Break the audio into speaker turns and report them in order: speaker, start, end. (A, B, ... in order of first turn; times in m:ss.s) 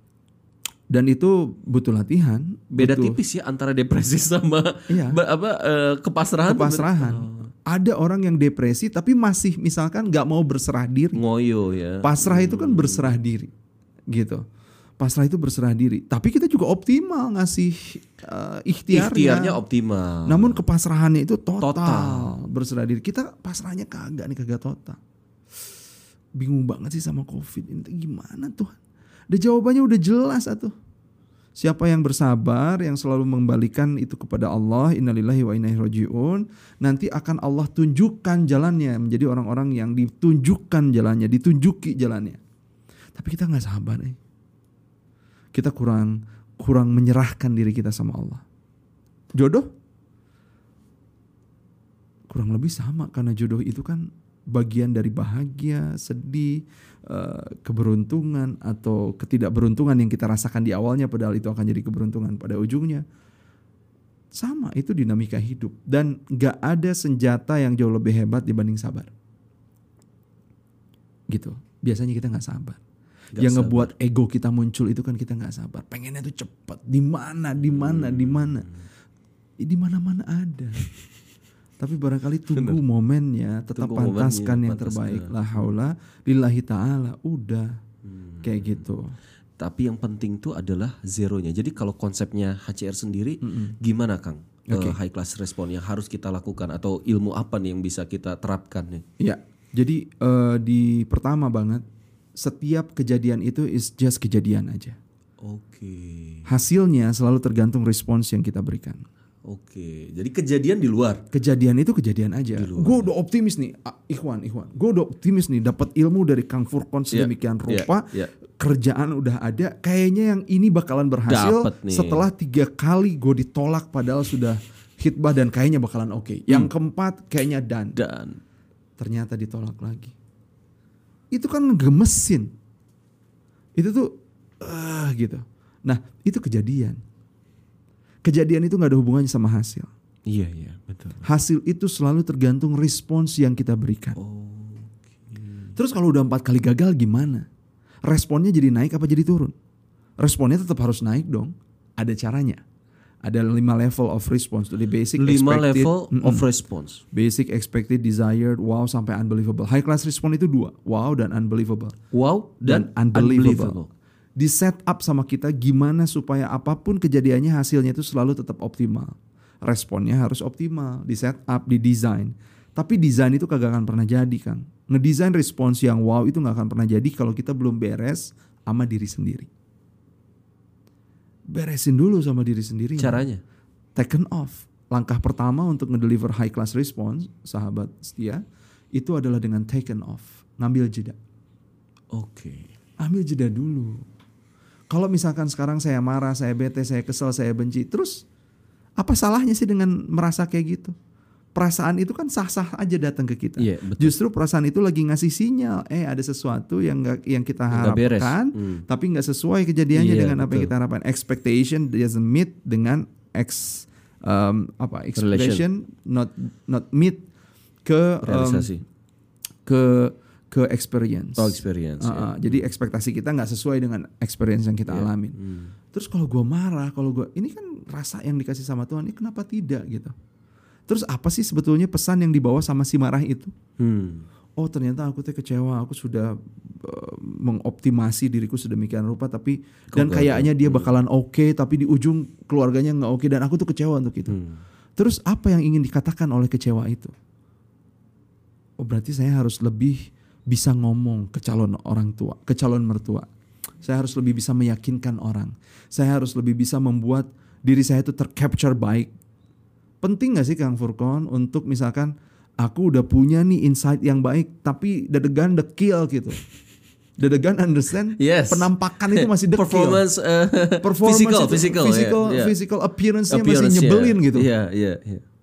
0:00.9-0:03.2 A
0:02.8-0:07.5 B
0:04.9-0:05.2 A
0:06.5-0:11.2 A
0:11.2-0:13.2 B
0:12.0-0:13.5 A
0:14.1-0:14.4 A
0:15.0-0:19.6 A
0:18.9-0:20.6 B
0:20.3-0:25.0 A
0:21.6-0:22.3 B
0:26.4-0:28.8 A
0:29.3-0:30.7 A
0:31.6-0:42.4 A
0:43.1-0:44.2 A
0:45.5-0:48.4 A
0:49.4-0:49.7 A
0:52.3-1:03.0 A
1:04.4-1:09.1 A
1:11.3-1:12.8 A
1:13.4-1:13.9 B
1:13.4-1:18.6 A
1:17.6-1:18.8 B
1:19.6-1:20.9 A
1:21.8-1:27.8 A
1:23.8-1:25.8 B
1:28.0-1:28.8 B
1:28.4-1:29.1 A
1:29.6-1:39.0 B
1:33.4-1:33.7 A
1:34.7-1:35.0 A
1:39.2-1:41.8 A
1:42.4-1:45.0 A
1:45.4-1:46.4 B
1:46.5-1:49.0 A
1:49.5-1:51.2 B
1:51.3-2:08.0 A
1:52.6-1:53.1 B
1:57.1-1:58.3 B
2:01.3-2:02.2 B
2:08.0-2:08.4 B
2:09.0-2:10.1 A
2:11.3-2:12.5 A
2:13.8-2:17.0 A
2:18.2-2:19.9 A
2:20.3-2:21.2 B
2:21.2-2:24.2 A
2:24.2-2:25.8 B
2:25.8-2:27.4 A
2:28.1-2:29.5 A
2:30.2-2:32.6 A
2:33.2-2:36.4 A
2:35.2-2:37.0 B
2:37.1-2:42.0 A
2:42.1-2:43.9 B
2:42.6-2:43.8 A
2:44.4-2:59.5 A
3:01.5-3:03.2 A
3:03.0-3:03.4 B
3:04.0-3:08.4 A
3:09.0-3:11.2 A
3:12.1-3:12.7 B
3:13.0-3:14.0 A
3:14.9-3:18.2 A
3:19.0-3:20.9 A
3:21.6-3:37.2 A
3:23.6-3:24.2 B
3:27.7-3:28.8 B
3:29.9-3:30.7 B
3:35.2-3:35.6 B
3:37.8-3:38.7 A
3:38.2-3:38.8 B
3:39.7-3:45.4 A
3:41.4-3:42.7 B
3:44.9-3:45.7 B
3:45.9-3:50.1 A
3:50.9-3:53.5 A
3:53.8-3:54.2 B
3:54.6-4:04.4 A
3:59.9-4:00.9 B
4:04.3-4:04.6 B
4:05.0-4:07.1 A
4:08.8-4:13.3 A
4:13.8-4:19.1 A
4:20.0-4:26.4 A
4:27.2-4:30.0 A
4:28.2-4:32.5 B
4:30.8-4:34.5 A
4:33.3-4:35.2 B